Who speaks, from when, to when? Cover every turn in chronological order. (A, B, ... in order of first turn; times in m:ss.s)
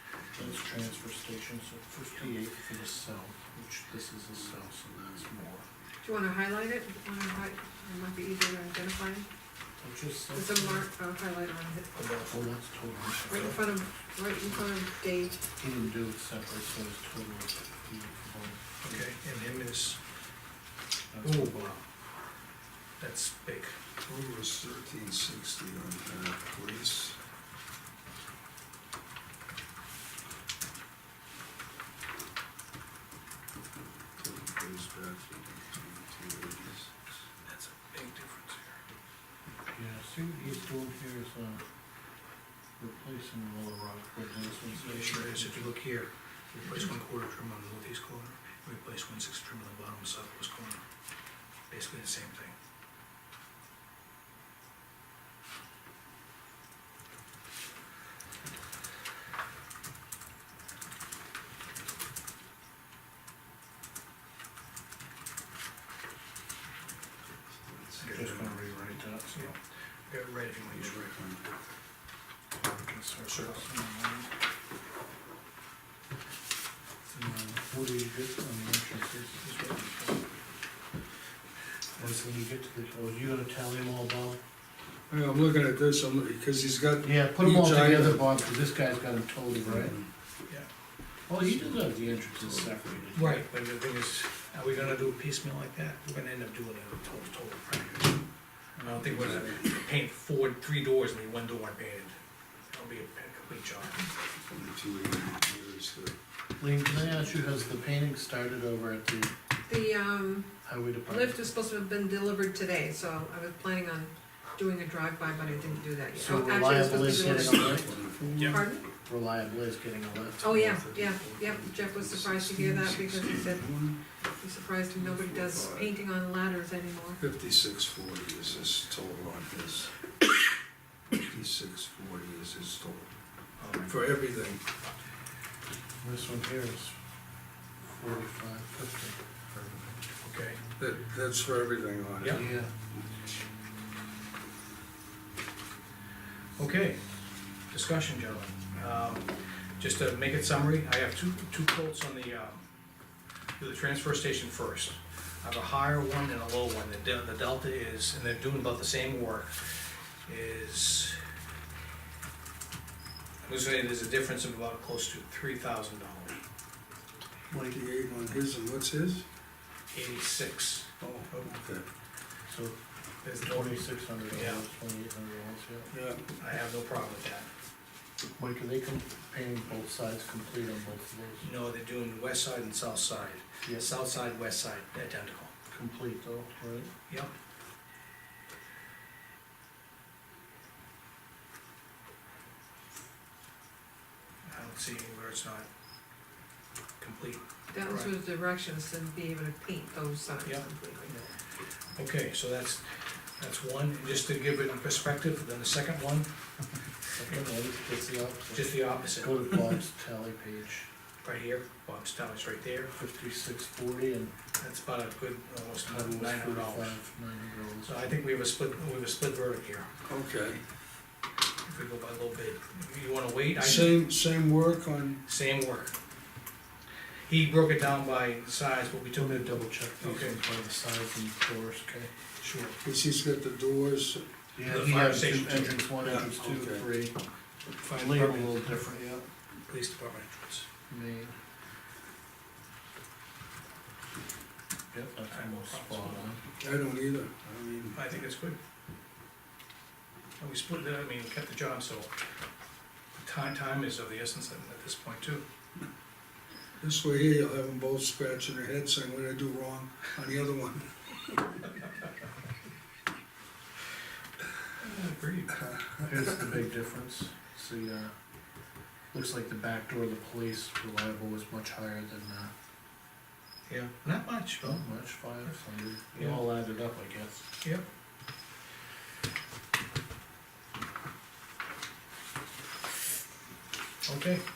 0:00.3-0:05.6 A
0:06.0-0:09.3 B
0:09.8-0:10.8 A
0:10.3-0:12.0 B
0:11.9-0:12.4 C
0:12.3-0:13.6 A
0:13.3-0:15.4 B
0:15.5-0:19.1 A
0:18.8-0:20.0 C
0:21.1-0:21.6 A
0:21.2-0:21.8 C
0:23.0-0:23.8 C
0:24.0-0:27.2 D
0:34.2-0:37.1 D
0:37.5-0:38.8 C
0:39.7-0:41.6 A
0:42.8-0:45.7 A
0:44.7-0:50.8 C
0:51.7-0:52.6 C
1:07.6-1:08.6 D
1:08.0-1:08.4 C
1:08.1-1:09.5 A
1:09.3-1:11.0 C
1:10.7-1:11.4 D
1:12.6-1:14.3 A
1:13.3-1:13.6 C
1:17.1-1:19.4 A
1:19.4-1:20.2 C
1:22.0-1:24.4 A
1:25.1-1:28.3 D
1:27.0-1:30.0 A
1:29.6-1:30.1 D
1:31.3-1:33.4 A
1:31.4-1:31.8 D
1:32.3-1:32.8 D
1:33.1-1:38.2 C
1:38.8-1:39.4 A
1:38.8-1:42.2 C
1:39.1-1:39.5 D
1:42.7-1:44.1 C
1:44.4-1:46.2 D
1:46.6-1:49.3 A
1:46.9-1:47.3 D
1:49.7-1:58.8 B
1:50.6-1:51.5 A
1:55.5-1:55.8 D
1:56.2-2:00.8 A
1:56.8-1:58.6 D
1:58.4-1:58.6 C
2:00.4-2:07.2 B
2:00.5-2:04.0 D
2:05.0-2:05.9 D
2:07.2-2:09.9 D
2:11.2-2:13.1 D
2:13.6-2:13.9 C
2:13.8-2:14.6 D
2:16.0-2:17.0 A
2:17.8-2:20.0 A
2:20.2-2:20.6 C
2:20.8-2:22.5 D
2:22.3-2:22.7 A
2:26.6-2:27.0 C
2:27.7-2:32.6 C
2:33.6-2:39.6 C
2:40.3-2:41.2 C
2:43.4-2:46.4 C
2:47.5-2:49.3 D
2:49.9-2:51.6 C
2:51.0-2:51.9 D
2:52.5-2:52.8 A
2:53.2-2:54.6 C
2:53.4-2:55.9 A
2:55.9-2:56.2 D
2:56.4-2:57.5 C
2:58.4-3:01.5 A
3:01.4-3:05.5 C
3:05.7-3:06.9 A
3:14.5-3:15.7 C
3:17.0-3:18.1 C
3:17.7-3:21.3 B
3:20.4-3:21.2 C
3:22.0-3:26.3 C
3:27.1-3:30.9 A
3:28.5-3:29.6 C
3:31.2-3:32.9 C
3:32.9-3:34.3 A
3:34.6-3:37.0 C
3:35.8-3:38.2 A
3:37.8-3:39.9 C
3:40.1-3:40.6 D
3:41.6-3:44.0 C
3:43.6-3:45.2 D
3:45.3-3:46.0 C
3:47.3-3:50.4 C
3:49.1-3:52.1 A
3:52.4-3:52.8 C
3:52.8-3:54.2 D
3:54.6-3:57.2 A
3:54.6-3:55.8 C
3:56.0-3:56.9 D
3:57.8-3:58.9 C
3:57.9-3:59.2 A
3:59.7-4:00.7 C
4:00.9-4:01.4 A
4:04.9-4:06.4 A
4:05.3-4:06.3 C
4:06.6-4:08.0 D
4:08.0-4:08.6 C
4:10.4-4:12.1 C
4:13.2-4:15.4 C
4:16.8-4:21.1 D
4:24.8-4:25.6 C
4:26.0-4:28.1 A
4:29.1-4:32.5 A
4:33.7-4:34.8 C
4:34.6-4:37.4 A
4:36.2-4:36.4 C
4:44.0-4:44.4 C